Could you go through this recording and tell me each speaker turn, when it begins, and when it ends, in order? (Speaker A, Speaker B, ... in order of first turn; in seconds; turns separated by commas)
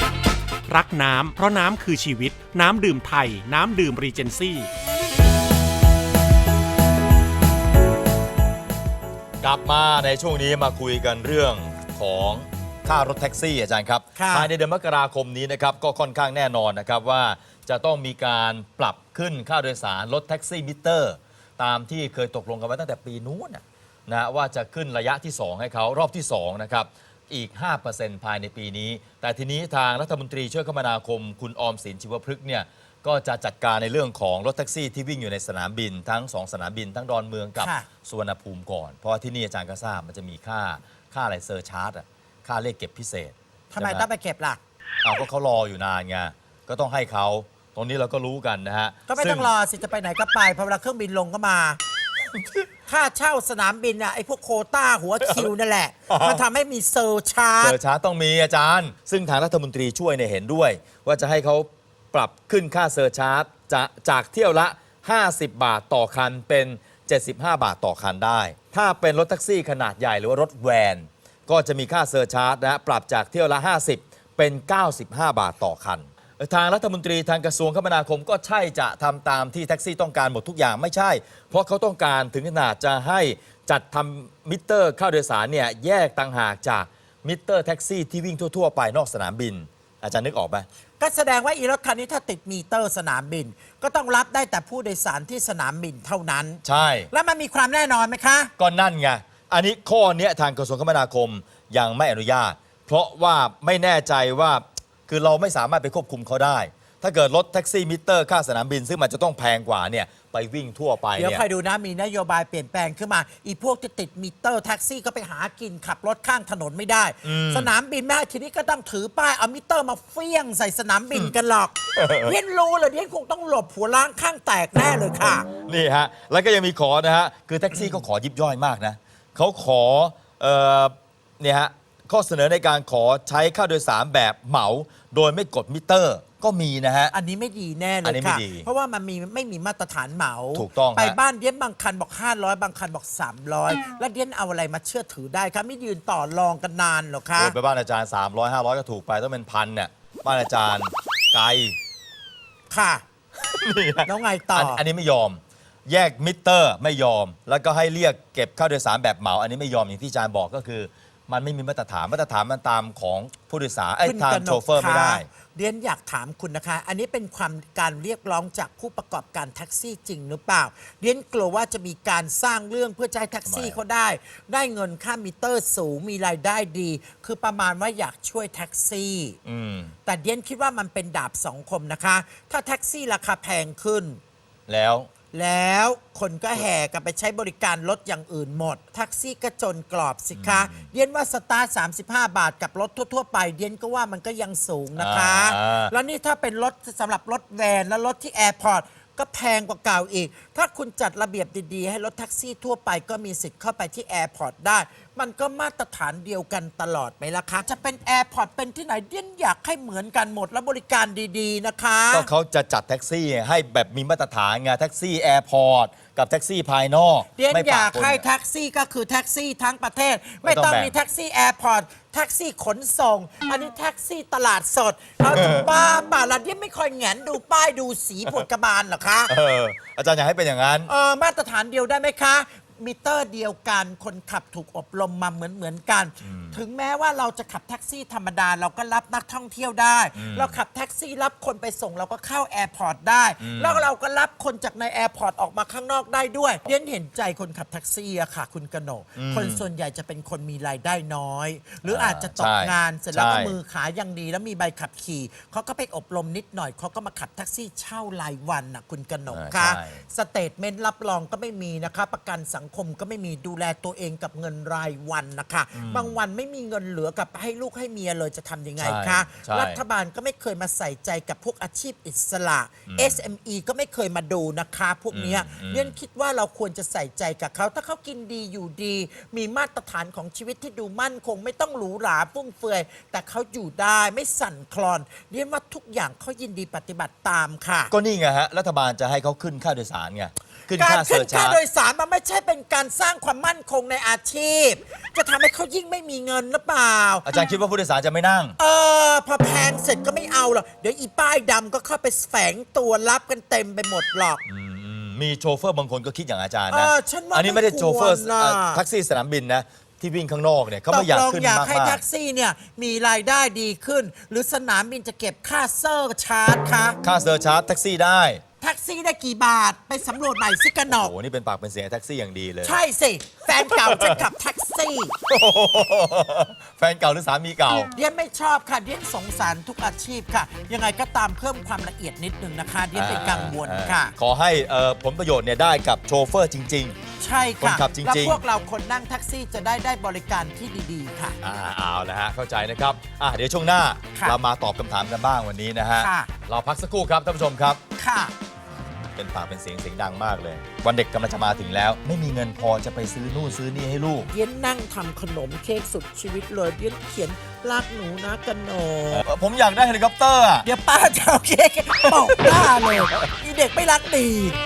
Speaker A: 0.7-4.7, Speaker B: 9.4-44.0, Speaker C: 14.2-14.5, Speaker C: 37.6-37.9, Speaker C: 43.7-44.6, Speaker B: 45.0-49.5, Speaker C: 49.1-51.8, Speaker C: 52.9-57.8, Speaker B: 55.2-55.5, Speaker B: 56.1-56.4, Speaker B: 57.6-90.7, Speaker C: 91.0-98.5, Speaker B: 96.6-97.1, Speaker B: 98.6-111.4, Speaker C: 111.2-125.5, Speaker B: 117.2-117.7, Speaker B: 121.9-122.3, Speaker B: 125.6-137.1, Speaker C: 137.1-147.6, Speaker B: 138.0-138.7, Speaker B: 140.5-141.2, Speaker B: 147.4-151.8, Speaker C: 152.7-153.0, Speaker B: 153.4-165.3, Speaker C: 154.1-154.8, Speaker C: 164.0-179.4, Speaker B: 173.4-173.8, Speaker B: 179.4-179.9, Speaker C: 180.0-184.2, Speaker B: 184.7-185.1, Speaker C: 185.3-212.3, Speaker B: 190.3-190.9, Speaker B: 194.9-195.9, Speaker B: 212.1-218.2, Speaker C: 217.3-229.3, Speaker B: 220.4-220.9, Speaker B: 225.3-225.7, Speaker B: 229.3-230.9, Speaker C: 230.8-287.9, Speaker B: 236.2-236.6, Speaker B: 240.1-240.6, Speaker B: 243.4-243.8, Speaker B: 249.2-249.6, Speaker B: 251.8-253.6, Speaker B: 259.3-260.0, Speaker B: 265.7-266.2, Speaker B: 268.8-269.8, Speaker B: 272.9-273.2, Speaker B: 275.1-275.9, Speaker B: 287.9-291.6, Speaker C: 290.8-297.2, Speaker B: 297.2-298.6, Speaker C: 298.6-304.4, Speaker B: 304.4-312.0, Speaker C: 306.7-308.8, Speaker C: 310.9-317.0, Speaker B: 317.0-318.4, Speaker C: 318.6-321.1, Speaker B: 320.9-322.8, Speaker C: 322.6-325.1, Speaker B: 323.5-324.2, Speaker B: 325.3-327.9, Speaker C: 327.9-334.1, Speaker B: 332.9-336.9, Speaker C: 337.2-341.4, Speaker B: 337.6-338.4, Speaker B: 341.4-347.8, Speaker C: 344.1-344.4, Speaker C: 346.0-346.3, Speaker C: 347.9-348.3, Speaker B: 348.7-354.3, Speaker C: 354.3-359.2, Speaker B: 359.1-360.7, Speaker C: 360.6-364.6, Speaker B: 362.0-362.9